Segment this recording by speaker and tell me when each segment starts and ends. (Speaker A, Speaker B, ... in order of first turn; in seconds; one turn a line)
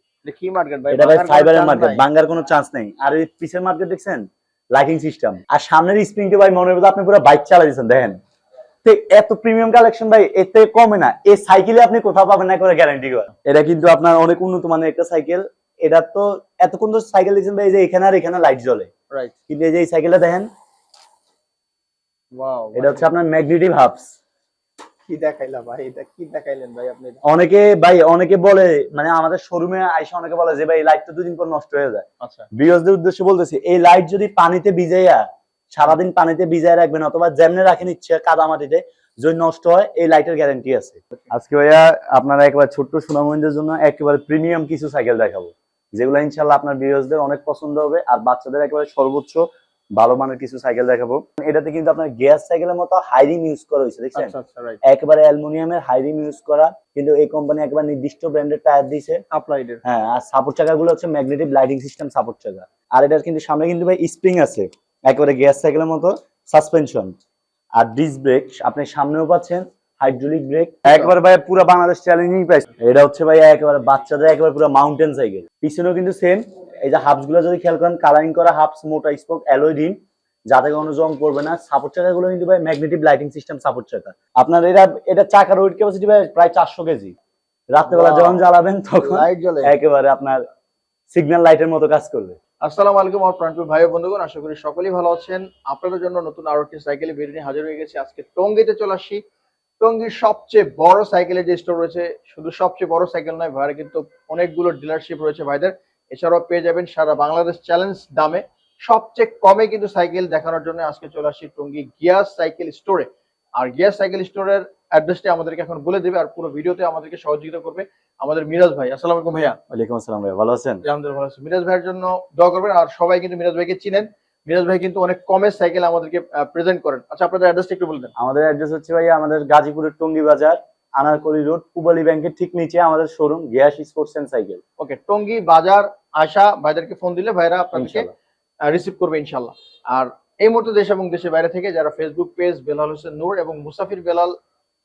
Speaker A: 0.2-2.0
Speaker B: 0.9-8.2
Speaker B: 8.8-18.9
Speaker B: 19.5-20.5
Speaker A: 22.3-23.1
Speaker B: 22.8-24.1
Speaker A: 25.1-27.2
Speaker B: 27.2-49.5
Speaker A: 32.2-32.5
Speaker B: 50.0-59.2
Speaker A: 54.1-54.8
Speaker A: 59.3-59.8
Speaker B: 59.9-67.1
Speaker B: 67.8-80.0
Speaker A: 70.9-71.1
Speaker B: 80.5-87.2
Speaker B: 87.7-90.4
Speaker A: 87.9-88.5
Speaker A: 89.0-89.7
Speaker B: 91.1-92.4
Speaker A: 92.6-99.2
Speaker A: 99.8-119.6
Speaker B: 119.7-120.8
Speaker A: 120.8-128.1
Speaker B: 128.2-134.6
Speaker A: 134.8-138.1
Speaker B: 137.8-138.1
Speaker A: 138.7-144.3